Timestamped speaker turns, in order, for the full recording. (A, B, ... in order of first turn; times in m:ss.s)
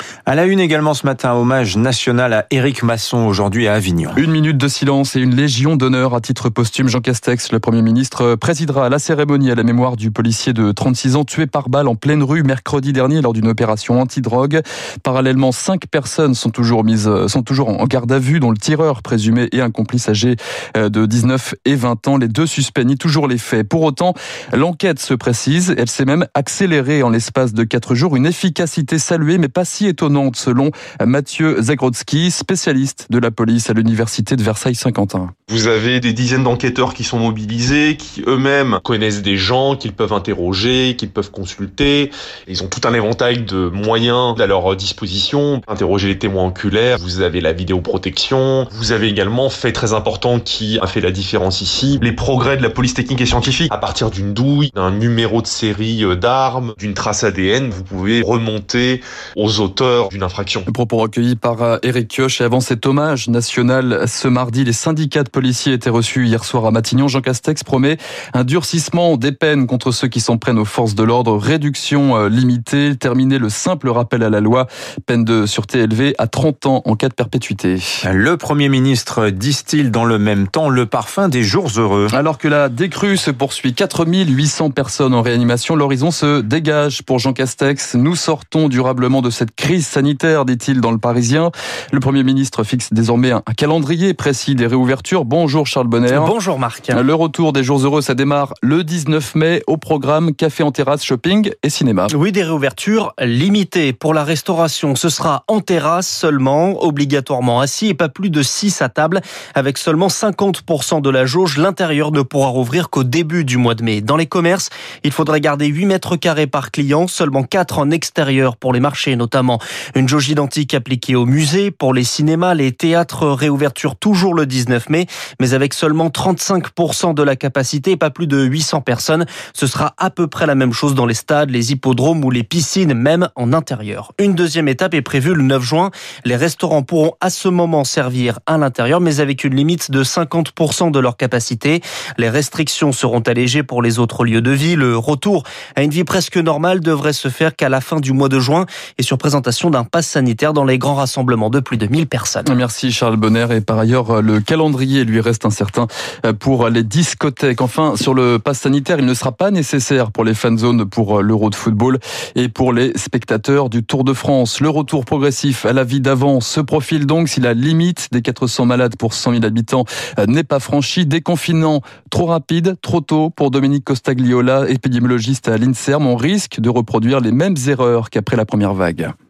0:00.3-0:04.2 A
0:04.2-0:35.3 B
0:35.5-1:00.7 C
1:00.7-1:18.0 B
1:18.0-1:22.1 A
1:22.1-1:36.3 B
1:36.1-1:37.0 D
1:36.9-1:42.1 B
1:42.1-2:32.5 D
2:32.4-2:59.1 B